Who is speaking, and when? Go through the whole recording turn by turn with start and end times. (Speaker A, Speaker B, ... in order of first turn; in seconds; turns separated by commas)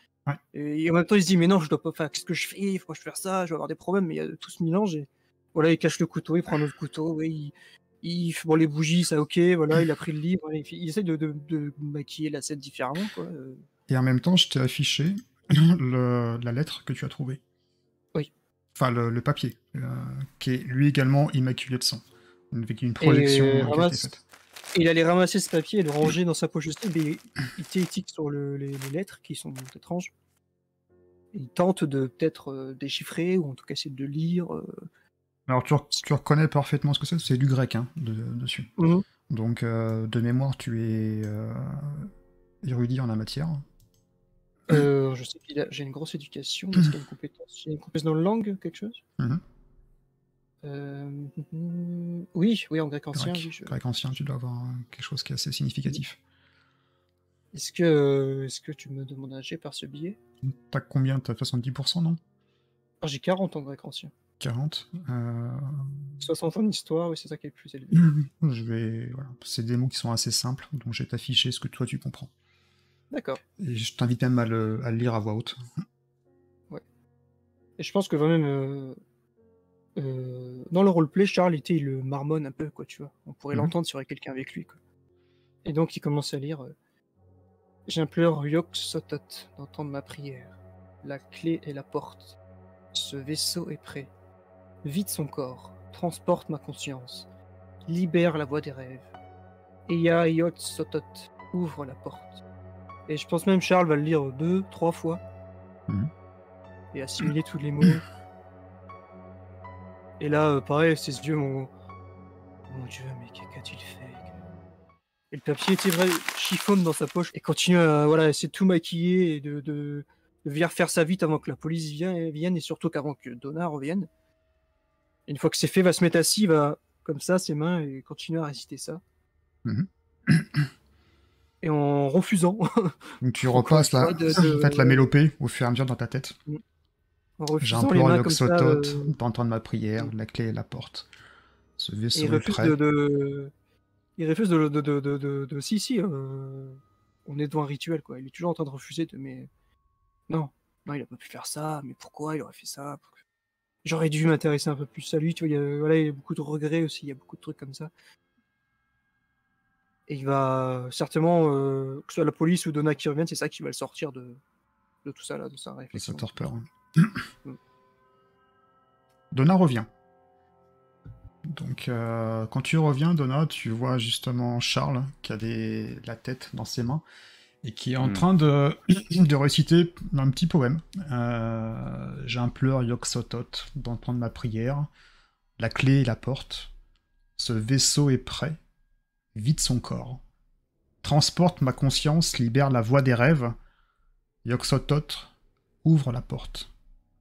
Speaker A: 0.5-13.6, Speaker B: 13.9-17.4, Speaker B: 18.8-24.2, Speaker A: 23.0-24.1, Speaker A: 24.7-30.1, Speaker A: 31.3-34.9, Speaker B: 35.5-38.7, Speaker A: 38.8-39.0, Speaker B: 39.3-43.6, Speaker A: 44.7-49.0, Speaker A: 50.6-53.8, Speaker B: 53.1-56.2, Speaker A: 57.5-60.2, Speaker B: 60.4-62.2, Speaker A: 63.0-64.1, Speaker B: 64.4-65.7, Speaker A: 66.2-68.1, Speaker B: 67.9-72.3, Speaker A: 73.1-73.4, Speaker B: 73.6-75.5, Speaker A: 77.8-79.0, Speaker A: 80.0-84.8, Speaker A: 85.6-86.7, Speaker A: 87.9-92.4, Speaker A: 92.9-94.1, Speaker A: 94.8-97.3, Speaker A: 97.8-99.1, Speaker A: 99.9-102.4, Speaker A: 103.1-105.2, Speaker A: 106.9-108.0, Speaker A: 110.2-111.7, Speaker A: 112.7-114.3, Speaker A: 115.3-124.1, Speaker A: 125.3-129.0, Speaker B: 129.6-130.6, Speaker A: 131.6-135.1, Speaker B: 133.2-136.3, Speaker A: 137.4-139.1, Speaker B: 137.6-141.1, Speaker B: 141.8-142.7, Speaker A: 142.1-143.5, Speaker A: 144.2-149.5, Speaker A: 150.3-153.1, Speaker A: 153.8-157.9, Speaker A: 160.1-164.4, Speaker A: 165.0-166.4, Speaker B: 165.9-167.2, Speaker B: 169.3-169.9, Speaker B: 171.5-177.0, Speaker B: 177.6-184.9, Speaker B: 185.6-186.7, Speaker B: 187.4-188.6, Speaker B: 189.3-190.2, Speaker B: 191.0-193.5, Speaker B: 194.4-195.3, Speaker B: 195.8-196.7